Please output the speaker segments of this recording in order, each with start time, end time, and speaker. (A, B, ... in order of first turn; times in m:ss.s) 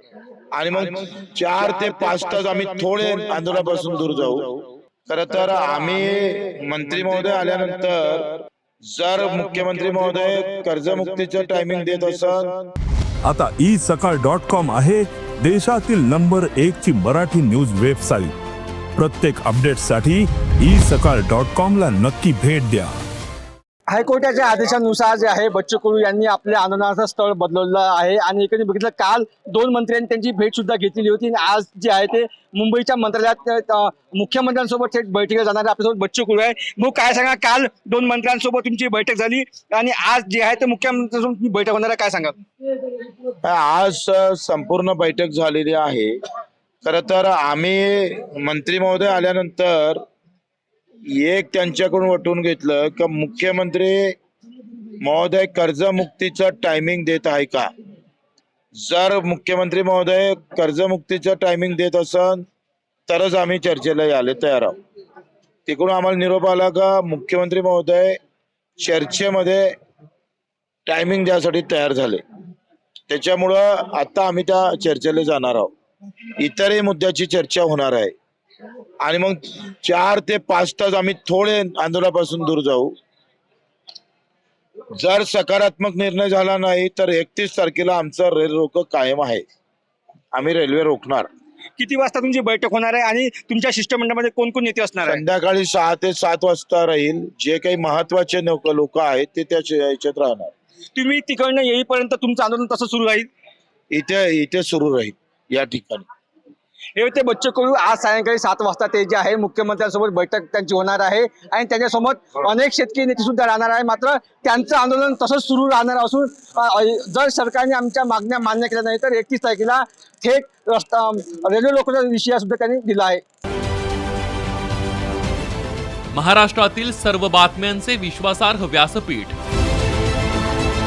0:00.5-0:04.5 A
0:05.1-0:08.3 A
0:08.9-0:12.5 A
0:13.2-0:18.3 B
0:19.0-0:22.9 B
0:23.9-0:42.4 C
0:43.4-0:46.1 A
0:46.8-0:50.0 A
0:51.1-0:54.1 A
0:55.0-0:57.7 A
0:58.8-1:02.4 A
1:03.1-1:04.8 A
1:05.7-1:08.2 A
1:08.8-1:09.7 A
1:10.8-1:12.2 A
1:13.1-1:15.7 A
1:16.4-1:18.1 A
1:19.0-1:22.9 A
1:25.0-1:29.4 A
1:30.3-1:31.3 A
1:31.8-1:35.2 C
1:35.0-1:40.5 A
1:41.0-1:43.3 C
1:43.9-1:46.0 A
1:47.0-2:03.2 C
2:06.1-2:09.3 D